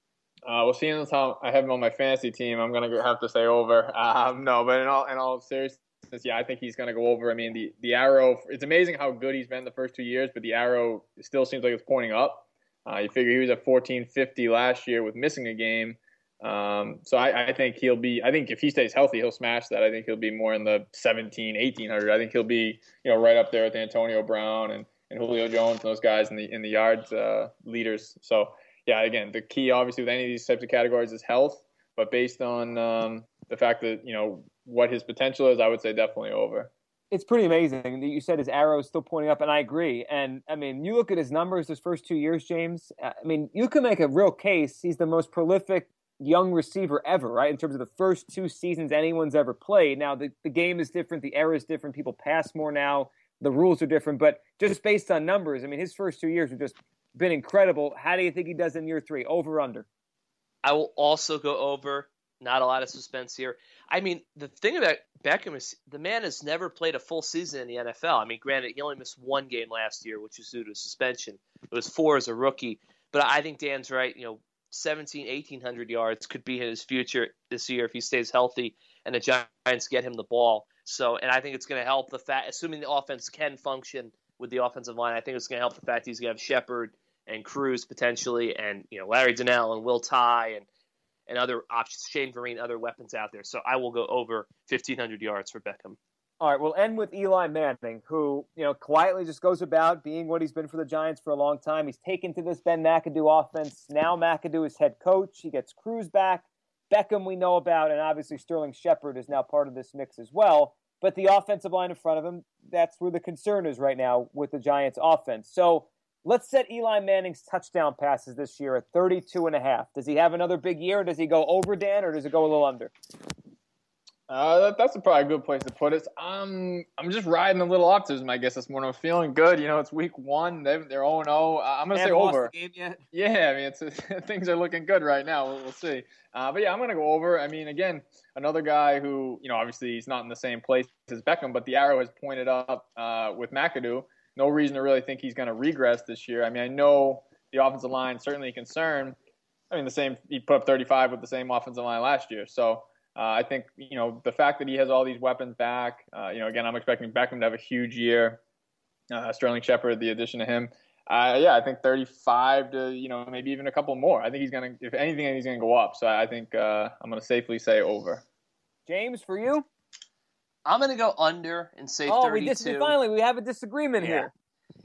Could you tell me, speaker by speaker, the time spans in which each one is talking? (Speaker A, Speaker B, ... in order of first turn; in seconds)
Speaker A: 0.5-36.7, 124.3-132.5, 133.1-149.2, 149.7-158.4, 159.1-168.2
Speaker B: 37.1-59.9, 96.4-122.9, 131.9-133.0, 168.9-169.7, 172.1-174.3
Speaker C: 60.6-90.7, 91.3-96.0, 170.7-173.0, 174.0-174.3